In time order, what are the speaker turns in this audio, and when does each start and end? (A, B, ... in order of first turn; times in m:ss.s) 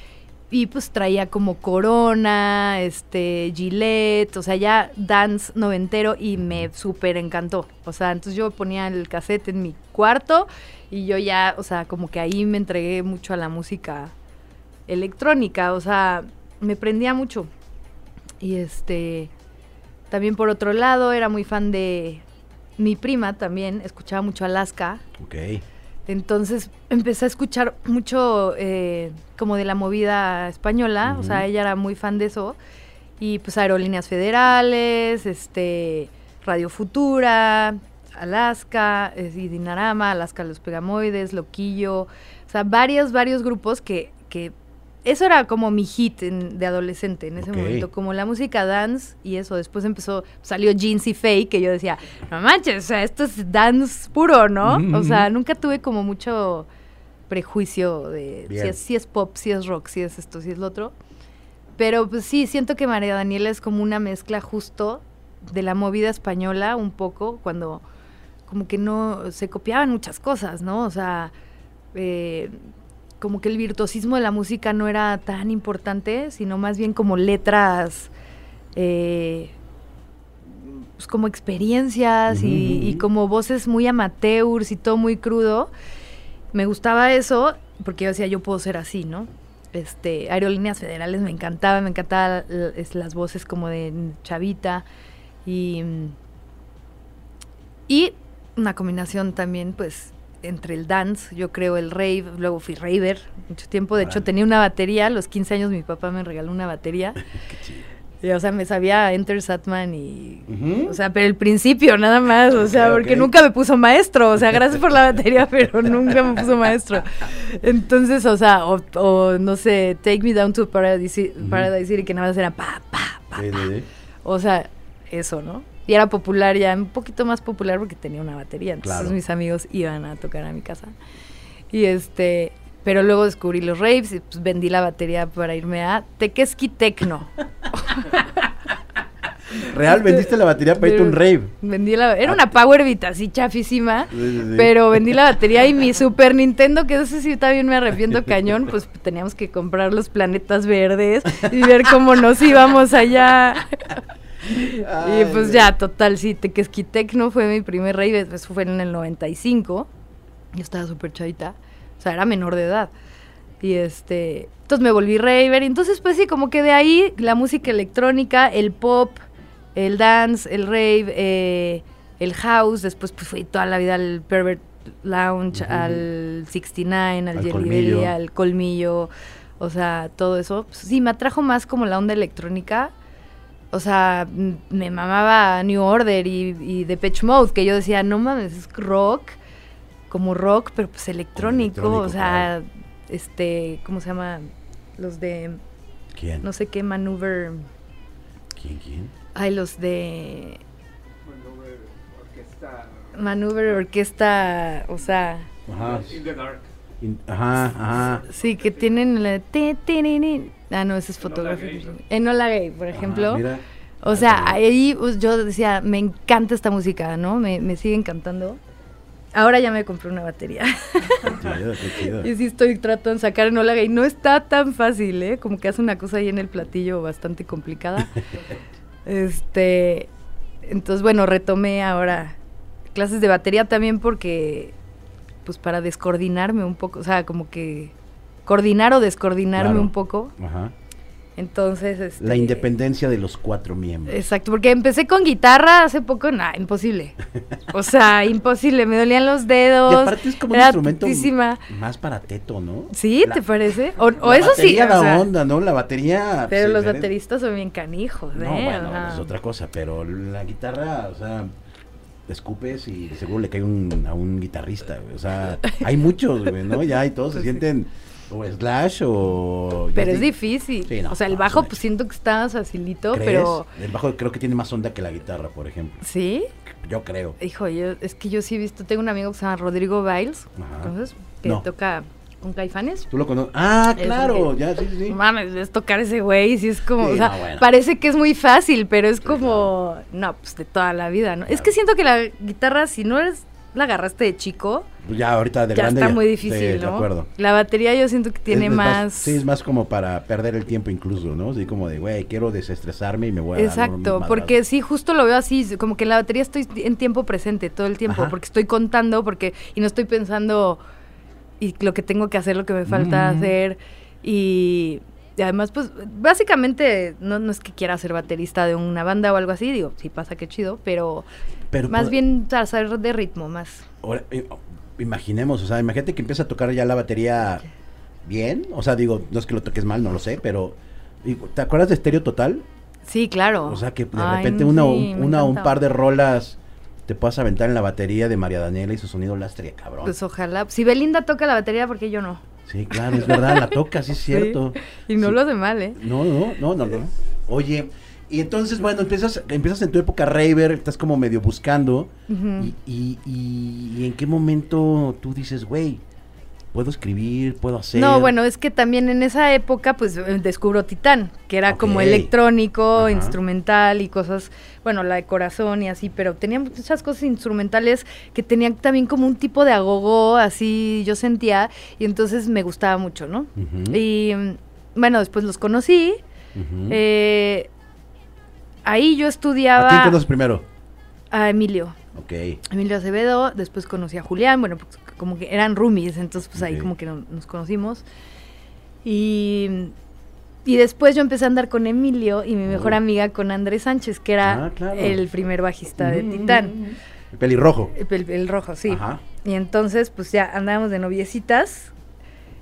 0:00.5-0:14.1 A
0:14.9-0:17.5 A
0:18.4-0:19.3 A
0:20.1-0:22.2 A
0:22.8-0:25.0 A
0:25.2-0:25.6 B
0:26.1-0:32.6 A
0:31.0-0:31.4 B
0:33.2-0:44.5 A
0:45.0-0:56.7 A
0:47.4-0:47.9 B
0:54.6-0:55.3 B
0:57.3-1:00.9 A
0:58.5-0:58.8 B
1:01.8-1:07.8 A
1:08.4-1:11.3 A
1:11.9-1:12.6 A
1:13.2-1:18.1 A
1:18.8-1:19.5 A
1:20.5-1:25.7 A
1:22.3-1:23.0 B
1:26.5-1:34.9 A
1:35.4-1:36.2 A
1:37.9-1:47.3 A
1:44.0-1:44.2 B
1:47.3-1:47.8 B
1:48.2-2:03.7 A
1:50.5-1:51.0 B
1:52.5-1:53.3 B
2:01.4-2:01.7 B
2:03.4-2:03.9 B
2:04.2-2:10.9 A
2:08.8-2:09.2 B
2:11.7-2:18.4 A
2:19.5-2:21.5 B
2:19.5-2:39.9 A
2:24.1-2:25.0 B
2:34.6-2:35.7 B
2:40.5-2:42.9 A
2:43.6-2:49.2 A
2:49.8-3:02.9 A
2:55.5-2:56.0 B
2:57.4-2:58.1 B
3:03.7-3:09.4 A
3:10.1-3:15.6 A
3:11.4-3:12.5 B
3:16.1-3:16.5 B
3:16.4-3:17.6 A
3:18.5-3:19.1 B
3:19.4-3:20.6 A
3:21.2-3:23.8 C
3:23.1-3:25.5 A
3:25.6-3:26.4 B
3:25.8-3:26.6 C
3:27.0-3:28.2 B
3:28.3-3:33.4 A
3:31.4-3:31.9 C
3:32.9-3:34.6 B
3:34.0-3:38.6 A
3:39.3-3:48.2 A
3:41.2-3:42.3 B
3:49.0-3:50.1 A
3:50.6-3:52.4 A
3:52.9-3:54.8 A
3:55.4-3:57.9 A
3:58.4-4:00.3 A
3:59.6-4:00.7 B
4:01.4-4:02.7 A
4:02.2-4:04.3 B
4:04.1-4:07.2 A
4:07.7-4:11.6 A
4:09.9-4:13.4 B
4:12.9-4:15.3 A
4:14.2-4:17.1 B
4:16.5-4:19.3 A
4:18.4-4:21.5 B
4:22.3-4:30.3 B
4:29.9-4:33.7 A
4:30.8-4:31.8 B
4:33.1-4:36.0 B
4:36.0-4:36.5 A
4:36.7-4:37.4 B
4:37.4-4:43.1 A
4:40.6-4:41.6 B
4:43.1-4:45.2 B
4:44.0-4:44.5 A
4:45.1-4:54.9 A
4:47.0-4:47.6 B
4:49.2-4:49.7 B
4:51.5-4:51.7 B
4:55.0-4:57.3 B
4:55.7-4:59.4 A
4:58.5-5:04.6 B
5:03.6-5:10.8 A
5:08.1-5:08.4 B
5:11.6-5:21.3 A
5:12.9-5:13.5 B
5:21.7-5:22.2 B
5:21.9-5:23.9 A
5:24.0-5:27.6 B
5:28.2-5:32.6 B
5:33.0-5:35.8 A
5:33.6-5:40.1 B
5:40.0-5:43.8 A
5:42.7-5:45.4 B
5:44.3-5:46.0 A
5:46.0-5:56.0 B
5:52.3-5:52.7 A
5:56.7-5:58.3 B
5:58.0-6:16.2 A
6:01.7-6:02.3 B
6:03.0-6:03.4 B
6:13.6-6:14.0 B
6:16.5-6:17.0 B
6:16.9-6:17.7 A
6:18.8-6:20.2 A
6:19.8-6:20.6 B
6:21.3-6:22.0 A
6:22.1-6:22.6 B
6:22.7-6:28.0 A
6:26.5-6:26.9 B
6:29.0-6:29.9 A
6:30.6-6:36.8 A
6:32.7-6:33.0 B
6:34.4-6:35.2 B
6:36.0-6:38.0 B
6:37.9-6:41.9 A
6:38.9-6:39.2 B